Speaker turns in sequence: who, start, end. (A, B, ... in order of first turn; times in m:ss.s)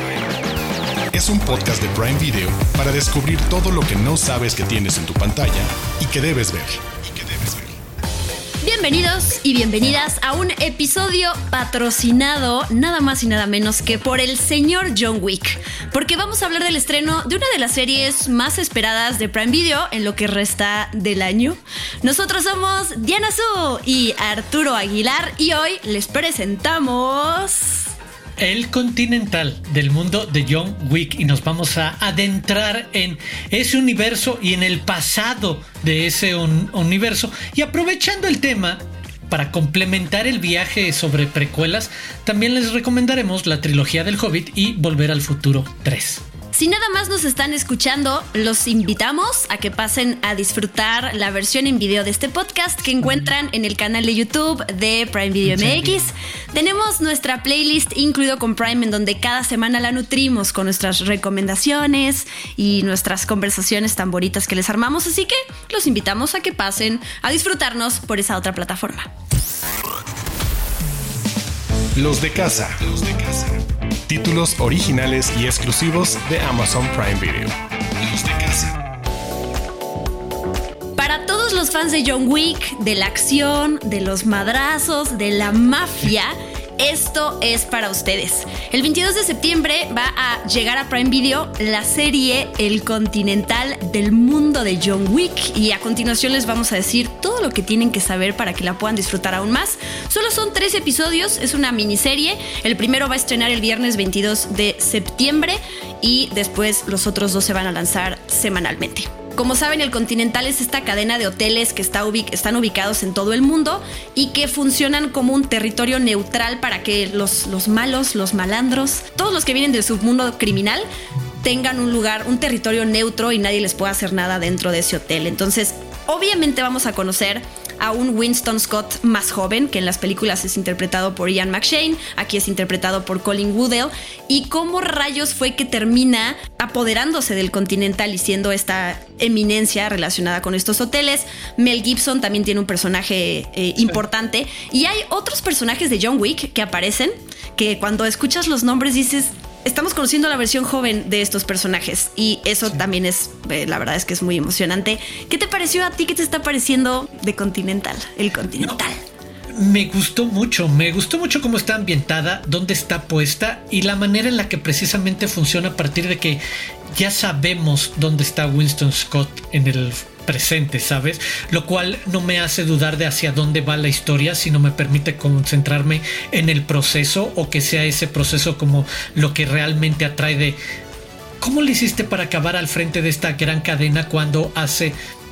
0:01.1-0:07.7 A
0:08.6-0:27.9 B
0:28.4-0:46.2 C
0:46.5-1:09.1 B
0:55.4-0:56.0 C
1:12.0-1:13.5 A
1:14.1-1:18.8 A
1:21.0-2:00.8 B
2:01.4-2:39.0 B
2:39.5-2:46.4 C
2:47.0-3:00.6 C
3:01.4-3:04.9 C